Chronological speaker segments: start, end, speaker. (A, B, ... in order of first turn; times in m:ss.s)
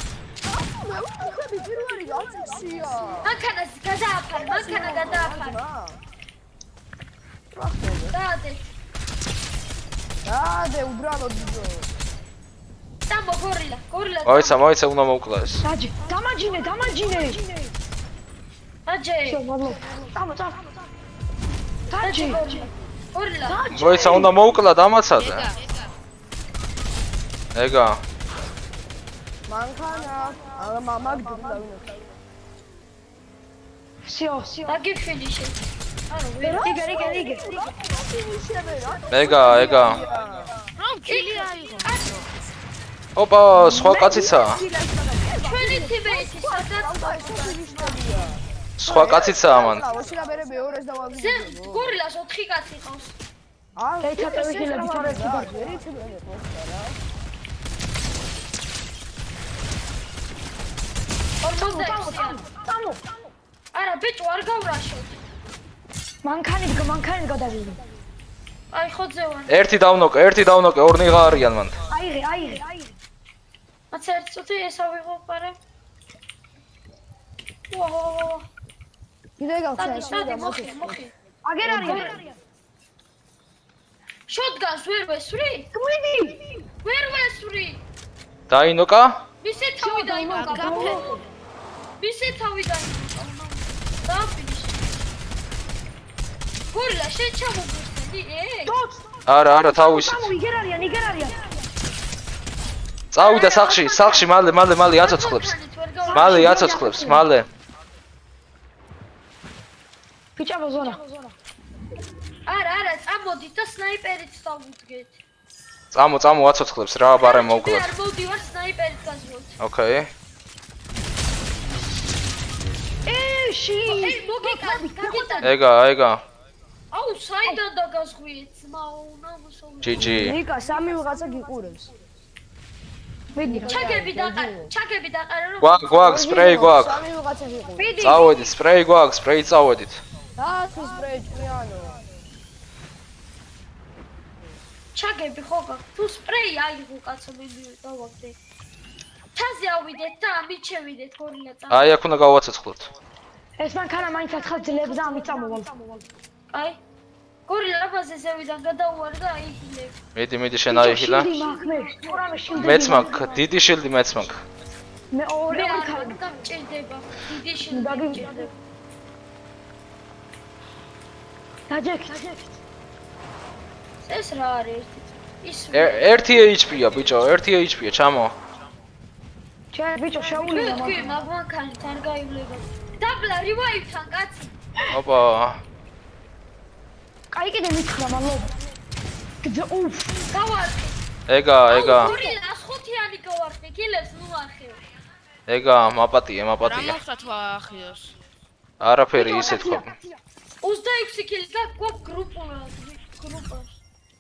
0:00.4-0:03.4 A
0:03.2-0:05.6 B
0:04.3-0:06.0 A
0:07.5-0:08.2 A
0:08.1-0:08.7 B
0:10.2-0:11.9 A
0:13.1-0:14.6 B
0:14.3-0:15.6 C
0:15.6-0:17.7 D
0:18.9-0:19.4 B
0:19.3-0:20.7 D
0:21.9-0:22.7 D
0:22.0-0:23.7 B
0:23.4-0:24.4 D
0:23.7-0:25.5 C
0:25.2-0:25.9 E
0:27.6-0:28.0 C
0:29.5-0:32.1 A
0:34.0-0:34.8 D
0:34.7-0:36.8 B
0:36.4-0:37.5 D
0:36.6-0:40.5 A
0:39.1-0:40.0 C
0:40.8-0:42.3 E
0:41.1-0:42.2 B
0:43.2-0:44.6 C
0:43.6-0:51.9 A
0:43.8-0:44.6 D
0:45.4-0:48.0 B
0:48.8-0:49.9 C
0:51.1-0:53.2 B
0:53.8-0:57.0 A
0:54.0-0:55.8 D
1:01.4-1:02.5 B
1:01.6-1:03.0 D
1:03.7-1:05.2 B
1:06.2-1:07.8 D
1:08.7-1:09.7 B
1:09.5-1:11.8 C
1:11.9-1:12.9 D
1:13.9-1:15.6 B
1:17.7-1:18.5 B
1:19.4-1:21.0 A
1:19.8-1:21.1 B
1:21.4-1:22.4 D
1:21.7-1:22.2 B
1:24.3-1:25.7 B
1:25.7-1:26.5 D
1:26.8-1:27.8 B
1:28.5-1:29.2 C
1:29.4-1:31.2 B
1:29.8-1:31.1 D
1:30.4-1:31.2 E
1:32.0-1:35.0 B
1:36.7-1:38.8 B
1:38.7-1:39.0 D
1:39.3-1:40.3 C
1:39.6-1:41.4 D
1:43.1-1:45.6 C
1:43.2-1:44.3 B
1:45.0-1:46.8 B
1:46.0-1:47.2 D
1:46.1-1:47.5 C
1:50.4-1:51.3 D
1:52.5-1:55.2 B
1:55.9-1:57.9 C
1:57.2-1:59.6 B
1:59.6-2:00.1 C
2:03.1-2:05.6 D
2:03.9-2:05.5 B
2:05.4-2:06.2 C
2:06.9-2:10.4 B
2:09.8-2:10.4 C
2:10.0-2:11.9 A
2:13.3-2:13.8 D
2:13.4-2:14.7 A
2:13.7-2:16.0 B
2:15.6-2:17.0 C
2:16.0-2:18.0 A
2:17.8-2:18.3 D
2:18.0-2:20.0 C
2:20.4-2:22.0 A
2:24.9-2:28.4 B
2:29.4-2:31.9 B
2:31.7-2:32.9 C
2:33.6-2:36.0 D
2:34.2-2:35.5 B
2:36.5-2:36.8 B
2:37.5-2:40.0 B
2:40.2-2:41.3 C
2:40.7-2:43.2 D
2:42.5-2:44.4 C
2:42.7-2:43.3 B
2:45.1-2:46.3 D
2:45.5-2:48.6 B
2:47.7-2:48.5 D
2:51.7-2:52.5 D
2:54.0-2:56.3 B
2:55.7-2:58.4 C
2:59.7-3:01.2 D
3:00.2-3:04.6 B
3:04.9-3:05.6 C
3:07.3-3:08.5 D
3:09.4-3:10.2 D
3:10.3-3:11.0 B
3:11.3-3:12.2 C
3:11.6-3:14.8 B
3:12.0-3:12.3 D
3:15.5-3:17.0 C
3:16.6-3:18.2 E
3:18.8-3:20.0 C
3:19.2-3:20.1 D
3:19.2-3:19.7 B
3:20.6-3:23.8 B